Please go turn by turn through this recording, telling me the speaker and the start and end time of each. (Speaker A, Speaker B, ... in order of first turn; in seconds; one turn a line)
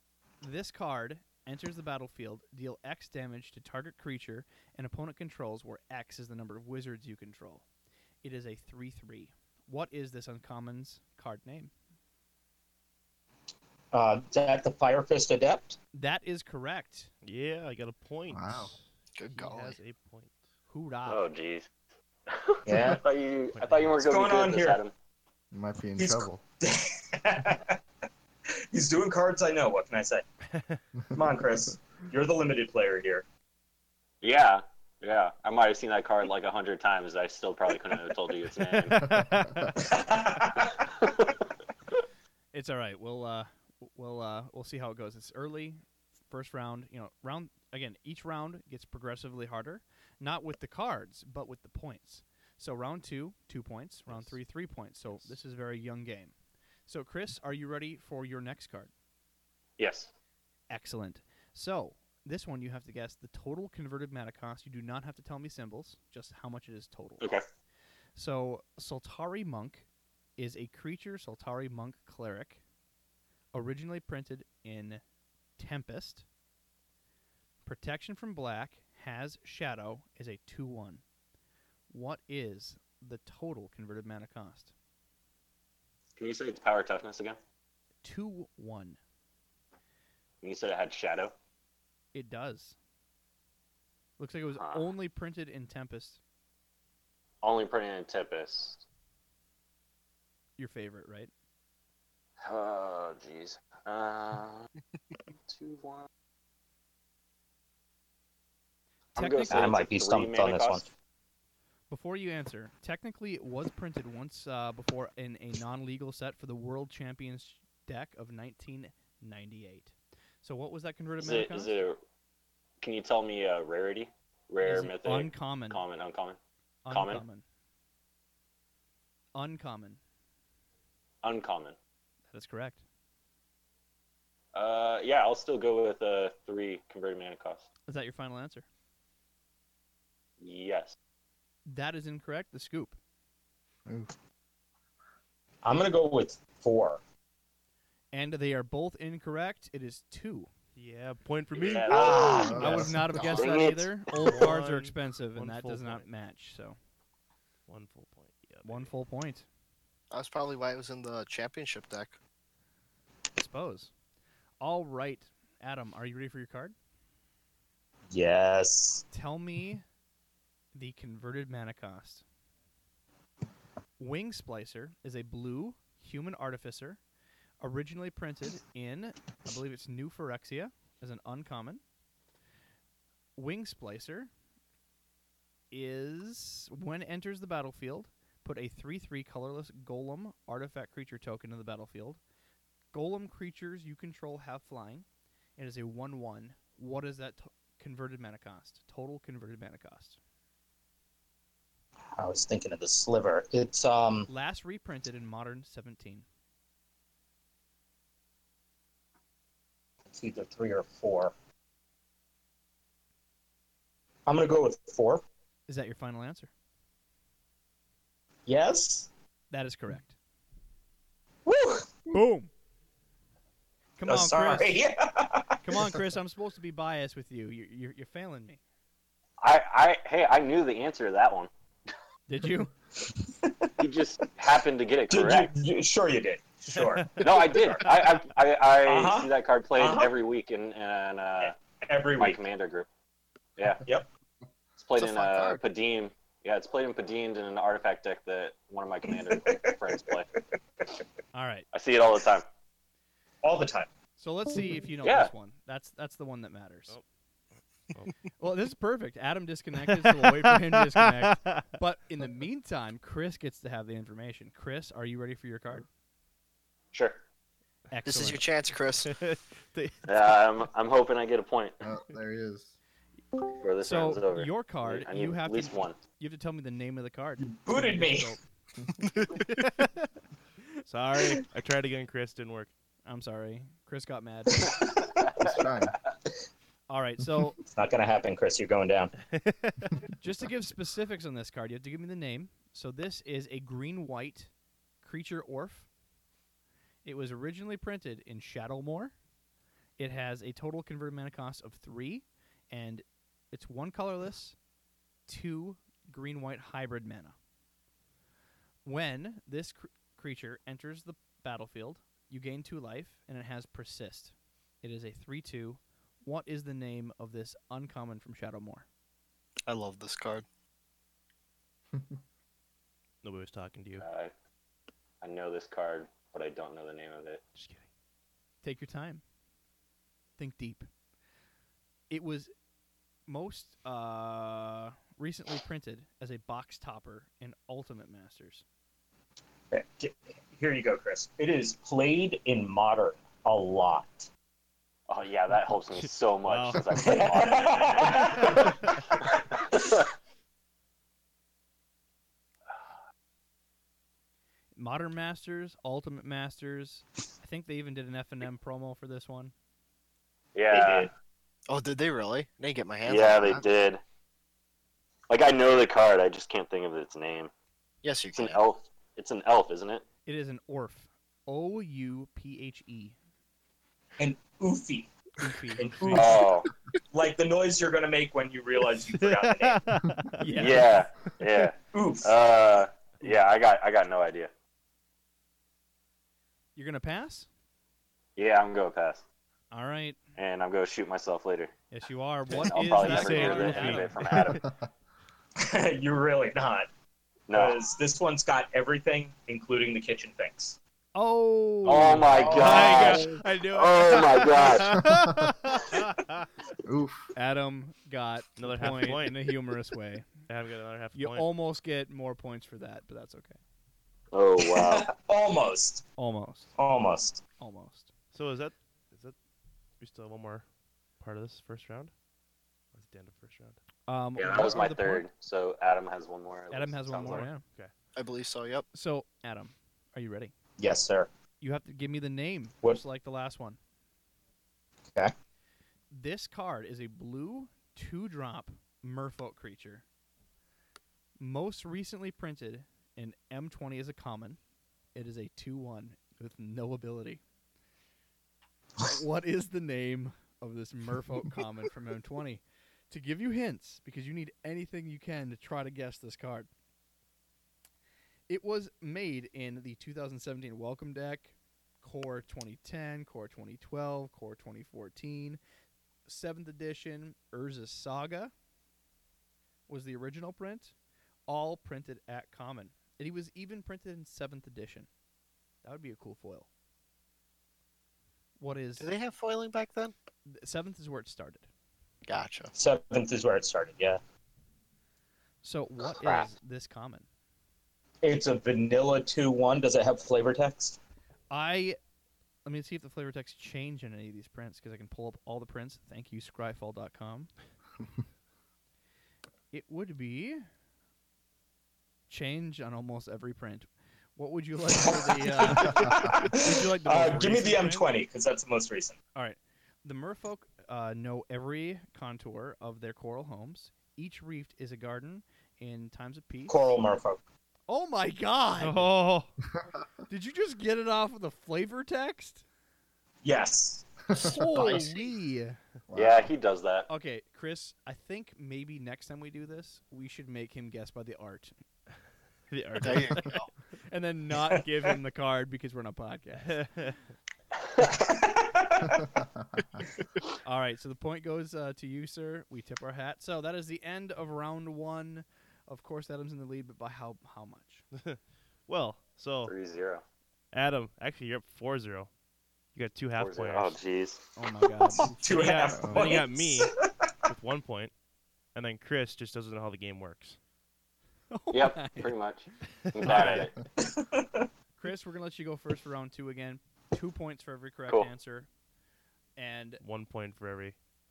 Speaker A: 0.4-7.6
Speaker A: 8.2-11.7
Speaker B: 13.9-15.8
Speaker A: 15.9-17.1
Speaker C: 17.2-20.4
Speaker D: 18.3-18.7
Speaker E: 19.1-19.8
Speaker A: 20.7-21.2
Speaker F: 21.1-21.7
Speaker F: 22.3-24.9
Speaker B: 22.6-23.0
Speaker C: 23.5-23.9
Speaker B: 24.0-24.8
Speaker D: 25.5-26.4
Speaker B: 26.0-27.8
Speaker B: 28.7-30.2
Speaker C: 30.5-30.8
Speaker B: 31.1-33.2
Speaker F: 34.2-39.0
Speaker D: 39.0-39.7
Speaker C: 39.1-39.5
Speaker B: 39.8-40.8
Speaker F: 41.0-41.3
Speaker A: 42.5-56.3
Speaker C: 54.1-54.4
Speaker A: 56.9-58.9
Speaker F: 59.8-60.1
Speaker A: 60.7-67.3
Speaker A: 68.2-69.8
Speaker A: 70.4-72.6
Speaker A: 73.5-75.0
Speaker A: 75.6-76.2
Speaker A: 77.6-81.0
Speaker A: 81.9-84.7
Speaker F: 86.2-87.4
Speaker A: 88.0-89.0
Speaker F: 90.4-91.3
Speaker A: 92.1-92.8
Speaker A: 94.2-96.2
Speaker F: 94.5-94.9
Speaker F: 97.4-98.8
Speaker A: 100.6-101.3
Speaker F: 102.4-104.7
Speaker F: 105.5-106.1
Speaker A: 109.1-109.7
Speaker F: 109.1-110.9
Speaker B: 109.5-110.9
Speaker A: 111.9-121.8
Speaker F: 121.2-122.0
Speaker F: 122.8-126.4
Speaker A: 124.6-125.8
Speaker A: 126.8-127.4
Speaker F: 126.9-127.2
Speaker A: 129.3-130.0
Speaker F: 131.2-131.8
Speaker A: 132.3-132.8
Speaker F: 134.5-137.7
Speaker A: 137.9-138.6
Speaker F: 140.4-140.9
Speaker A: 141.7-143.0
Speaker B: 145.6-147.0
Speaker A: 148.1-150.5
Speaker C: 150.8-152.5
Speaker F: 151.6-152.6
Speaker B: 151.9-152.8
Speaker D: 152.2-153.2
Speaker A: 152.2-156.8
Speaker F: 153.3-154.4
Speaker C: 154.2-156.0
Speaker C: 157.7-158.9
Speaker A: 158.6-159.4
Speaker E: 160.1-162.2
Speaker A: 163.4-163.9
Speaker A: 164.6-166.7
Speaker B: 168.1-169.0
Speaker A: 169.1-169.8
Speaker A: 170.7-172.2
Speaker A: 174.0-177.0
Speaker A: 177.6-181.8
Speaker A: 183.3-184.3
Speaker A: 185.7-192.2
Speaker A: 192.9-195.1
Speaker A: 195.6-200.2
Speaker B: 202.2-204.3
Speaker A: 204.3-206.2
Speaker B: 210.1-211.3
Speaker B: 214.2-215.2
Speaker A: 215.7-216.5
Speaker B: 218.5-219.1
Speaker A: 219.5-220.2
Speaker B: 221.4-221.9
Speaker A: 222.1-222.5
Speaker A: 224.0-224.8
Speaker B: 224.1-225.6
Speaker A: 225.6-228.6
Speaker F: 229.4-231.5
Speaker A: 232.3-232.7
Speaker B: 233.1-233.7
Speaker F: 233.8-235.5
Speaker B: 235.1-238.0
Speaker C: 236.7-237.2
Speaker F: 237.2-241.5
Speaker B: 238.8-240.1
Speaker B: 241.4-242.4
Speaker F: 242.2-242.9
Speaker F: 243.6-243.8
Speaker F: 244.8-250.3
Speaker E: 245.0-245.6
Speaker B: 249.3-250.1
Speaker A: 251.3-251.7
Speaker F: 251.7-252.4
Speaker B: 253.4-253.9
Speaker A: 254.2-256.9
Speaker F: 255.0-255.3
Speaker C: 257.9-258.2
Speaker A: 258.4-265.8
Speaker C: 259.9-261.6
Speaker F: 266.9-267.2
Speaker A: 267.9-268.4
Speaker E: 268.0-269.1
Speaker C: 269.0-270.1
Speaker F: 270.1-271.8
Speaker D: 271.8-272.8
Speaker F: 273.6-276.0
Speaker A: 273.8-278.4
Speaker B: 277.4-278.3
Speaker C: 279.3-279.9
Speaker C: 280.9-282.7
Speaker A: 283.1-284.7
Speaker D: 285.4-285.9
Speaker A: 286.9-287.6
Speaker B: 287.7-289.1
Speaker C: 289.3-289.9
Speaker A: 290.2-294.5
Speaker A: 295.0-295.9
Speaker A: 297.0-299.1
Speaker A: 300.0-304.6
Speaker A: 305.3-307.4
Speaker A: 308.8-318.9
Speaker E: 319.7-320.4
Speaker C: 323.2-324.1
Speaker F: 324.0-324.3
Speaker F: 325.2-327.4
Speaker C: 327.5-327.9
Speaker A: 328.6-329.2
Speaker A: 330.4-330.9
Speaker A: 332.1-332.5
Speaker A: 333.3-338.6
Speaker B: 339.7-344.3
Speaker F: 345.1-350.0
Speaker C: 346.0-347.3
Speaker B: 346.9-348.8
Speaker C: 348.2-349.0
Speaker A: 354.7-359.5
Speaker F: 360.5-361.1
Speaker B: 360.7-361.1
Speaker E: 361.7-363.6
Speaker F: 363.1-364.0
Speaker F: 365.3-367.5
Speaker E: 368.0-368.6
Speaker F: 368.3-370.0
Speaker A: 370.2-373.1
Speaker B: 374.2-375.1
Speaker A: 375.4-376.3
Speaker B: 375.7-376.6
Speaker F: 376.1-376.7
Speaker B: 377.1-379.8
Speaker C: 379.2-380.9
Speaker A: 380.4-381.0
Speaker F: 380.6-384.5
Speaker B: 381.9-382.3
Speaker A: 386.8-387.5
Speaker F: 388.4-389.2
Speaker A: 389.7-390.2
Speaker F: 390.4-391.7
Speaker A: 391.9-394.4
Speaker F: 392.5-394.6
Speaker C: 392.6-394.6
Speaker B: 395.6-396.9
Speaker F: 397.5-397.8
Speaker B: 397.5-400.8
Speaker A: 401.1-406.0
Speaker F: 401.8-405.0
Speaker C: 402.0-403.4
Speaker B: 402.3-403.3
Speaker C: 404.6-405.1
Speaker D: 405.0-405.5
Speaker C: 405.8-406.4
Speaker D: 406.8-407.3
Speaker A: 407.3-410.3
Speaker C: 408.6-409.5
Speaker C: 410.4-411.5
Speaker A: 411.1-413.6
Speaker F: 414.3-415.1
Speaker B: 414.6-416.0
Speaker A: 416.2-416.7
Speaker B: 416.8-417.4
Speaker A: 417.6-418.1
Speaker C: 418.3-419.3
Speaker C: 420.0-420.7
Speaker C: 421.2-422.1
Speaker C: 422.9-423.8
Speaker A: 424.1-425.2
Speaker F: 424.4-427.5
Speaker A: 426.7-427.6
Speaker C: 427.2-427.9
Speaker E: 428.1-428.9
Speaker A: 428.9-430.5
Speaker B: 430.8-431.3
Speaker A: 431.6-433.8
Speaker A: 436.1-440.0
Speaker A: 441.4-444.6
Speaker A: 445.1-447.4
Speaker A: 449.0-456.7
Speaker A: 458.5-465.6
Speaker A: 466.2-468.5
Speaker A: 469.9-470.9
Speaker A: 471.5-475.1
Speaker A: 475.8-476.7
Speaker A: 478.6-479.1
Speaker E: 479.0-480.1
Speaker A: 480.4-481.7
Speaker E: 482.3-482.7
Speaker B: 482.7-484.2
Speaker A: 485.6-487.2
Speaker B: 488.2-491.0
Speaker A: 491.5-492.0
Speaker A: 492.6-497.5
Speaker A: 499.7-500.6
Speaker A: 502.3-508.1
Speaker B: 504.9-509.1
Speaker A: 509.3-516.9
Speaker B: 516.7-517.4
Speaker A: 517.9-519.1
Speaker C: 518.8-519.5
Speaker A: 520.3-522.6
Speaker B: 523.4-524.1
Speaker A: 524.3-525.8
Speaker E: 524.8-525.0
Speaker D: 526.1-526.5
Speaker F: 526.1-527.1
Speaker A: 527.1-531.7
Speaker C: 532.7-533.5
Speaker E: 533.0-533.7
Speaker A: 534.1-536.9
Speaker C: 536.6-537.1
Speaker B: 538.0-539.2
Speaker A: 540.6-548.0
Speaker C: 548.2-549.7
Speaker F: 549.6-550.2
Speaker C: 550.7-552.3
Speaker C: 552.9-554.0
Speaker F: 553.4-554.4
Speaker A: 554.5-555.4
Speaker B: 555.2-557.1
Speaker C: 555.5-556.9
Speaker D: 555.9-556.3
Speaker C: 557.5-558.1
Speaker C: 558.7-560.6
Speaker A: 561.5-562.3
Speaker F: 561.7-563.7
Speaker C: 563.1-563.7
Speaker A: 563.3-563.6
Speaker B: 564.0-564.7
Speaker A: 565.0-568.7
Speaker A: 569.6-570.0
Speaker C: 570.0-571.0